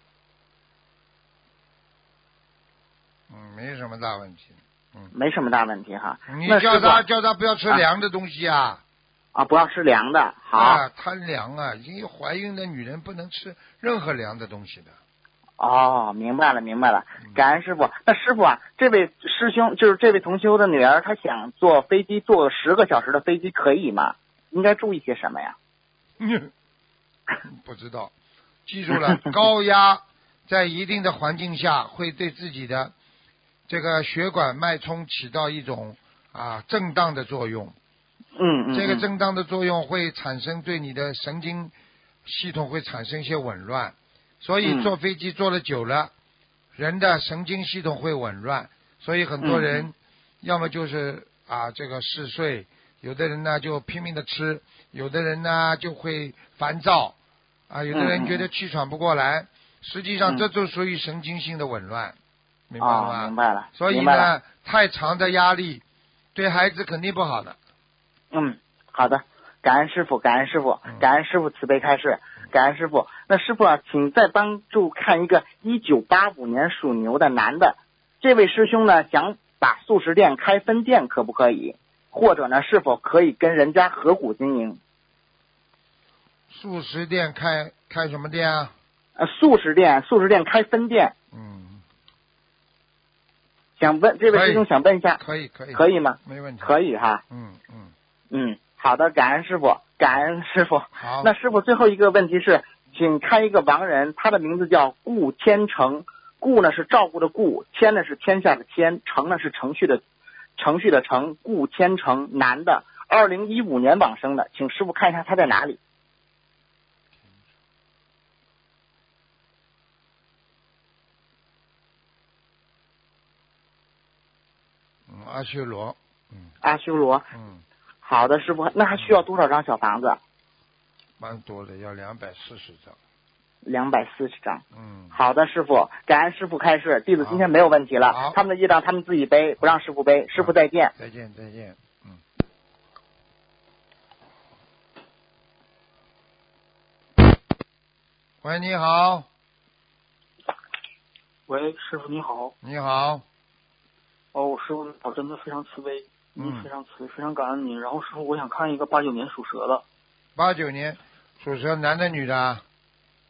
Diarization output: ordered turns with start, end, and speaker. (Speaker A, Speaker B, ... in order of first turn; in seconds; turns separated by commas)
Speaker A: 3.3-5.1, Speaker B: 5.1-7.0, Speaker A: 6.3-8.8, Speaker B: 9.3-10.8, Speaker A: 10.5-14.9, Speaker B: 15.6-25.6, Speaker A: 26.2-26.5, Speaker A: 27.4-28.1, Speaker A: 28.6-32.9, Speaker A: 33.7-37.8, Speaker B: 38.4-39.0, Speaker A: 38.7-46.1, Speaker B: 44.6-44.9, Speaker A: 46.7-57.1, Speaker B: 49.4-49.9, Speaker A: 57.7-62.2, Speaker B: 57.9-58.4, Speaker A: 62.7-65.8, Speaker B: 62.8-64.3, Speaker A: 66.3-67.6, Speaker B: 68.3-84.8, Speaker A: 86.5-88.7, Speaker B: 89.2-91.1, Speaker A: 91.3-91.8, Speaker B: 93.8-95.2, Speaker A: 94.3-94.6, Speaker A: 95.2-96.7, Speaker B: 95.7-97.2, Speaker A: 97.3-97.9, Speaker B: 98.3-110.0, Speaker A: 101.0-101.3, Speaker B: 110.6-115.8, Speaker A: 125.1-126.5, Speaker B: 126.6-127.3, Speaker A: 127.3-127.6, Speaker B: 128.0-130.2, Speaker A: 131.2-133.0, Speaker B: 133.6-140.9, Speaker A: 134.7-135.2, Speaker A: 138.1-138.4, Speaker A: 140.3-142.2, Speaker A: 148.4-149.3, Speaker C: 151.5-152.5, Speaker A: 152.6-153.2, Speaker C: 154.3-159.8, Speaker A: 156.4-156.7, Speaker A: 160.3-162.6